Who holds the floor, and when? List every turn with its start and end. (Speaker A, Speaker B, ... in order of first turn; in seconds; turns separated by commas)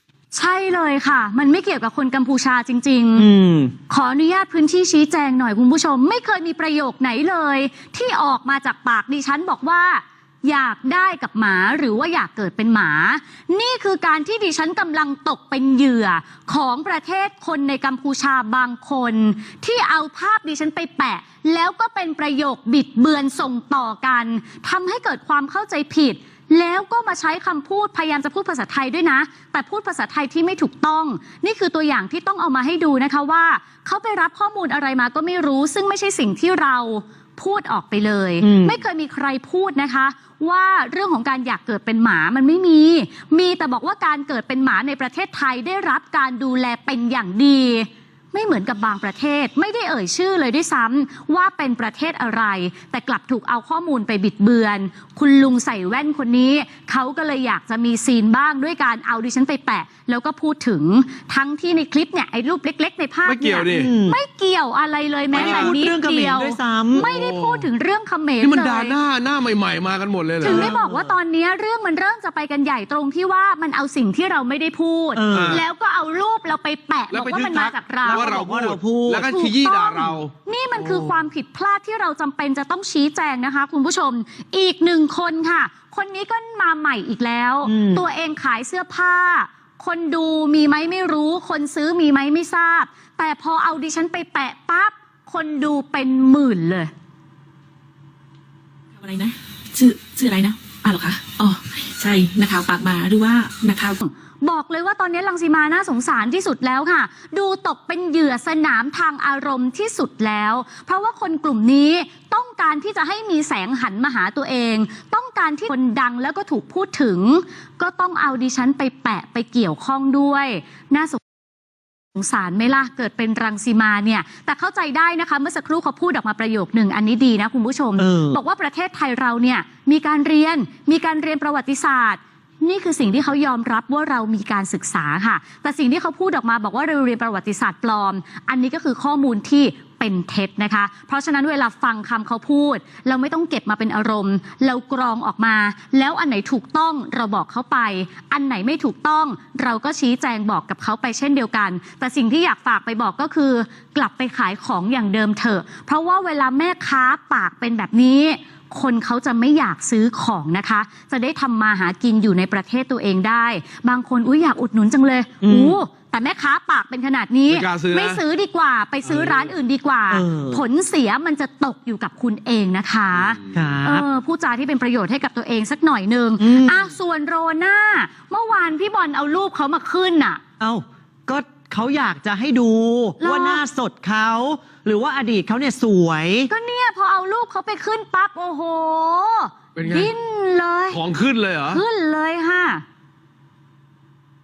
Speaker A: 0.3-3.3, Speaker B: 3.2-3.7, Speaker A: 3.9-69.0, Speaker B: 38.4-38.8, Speaker C: 63.2-63.9, Speaker B: 63.8-64.2, Speaker C: 65.3-65.8, Speaker B: 65.3-67.1, Speaker C: 66.9-67.7, Speaker C: 68.4-70.7, Speaker A: 70.4-78.5, Speaker B: 70.5-71.2, Speaker B: 75.2-75.6, Speaker C: 75.3-75.6, Speaker C: 77.1-80.3, Speaker B: 78.1-79.3, Speaker A: 79.2-96.9, Speaker B: 87.7-88.0, Speaker D: 99.0-104.0, Speaker A: 104.0-121.2, Speaker A: 122.2-180.4, Speaker B: 128.0-128.4, Speaker B: 165.4-165.8, Speaker C: 167.5-168.2, Speaker C: 169.1-169.5, Speaker B: 170.1-170.6, Speaker C: 173.2-173.8, Speaker B: 173.5-174.1, Speaker B: 176.4-176.8, Speaker B: 180.6-186.5, Speaker A: 183.2-183.6, Speaker A: 186.5-191.0, Speaker C: 189.8-190.1, Speaker C: 190.9-191.8, Speaker A: 191.7-192.8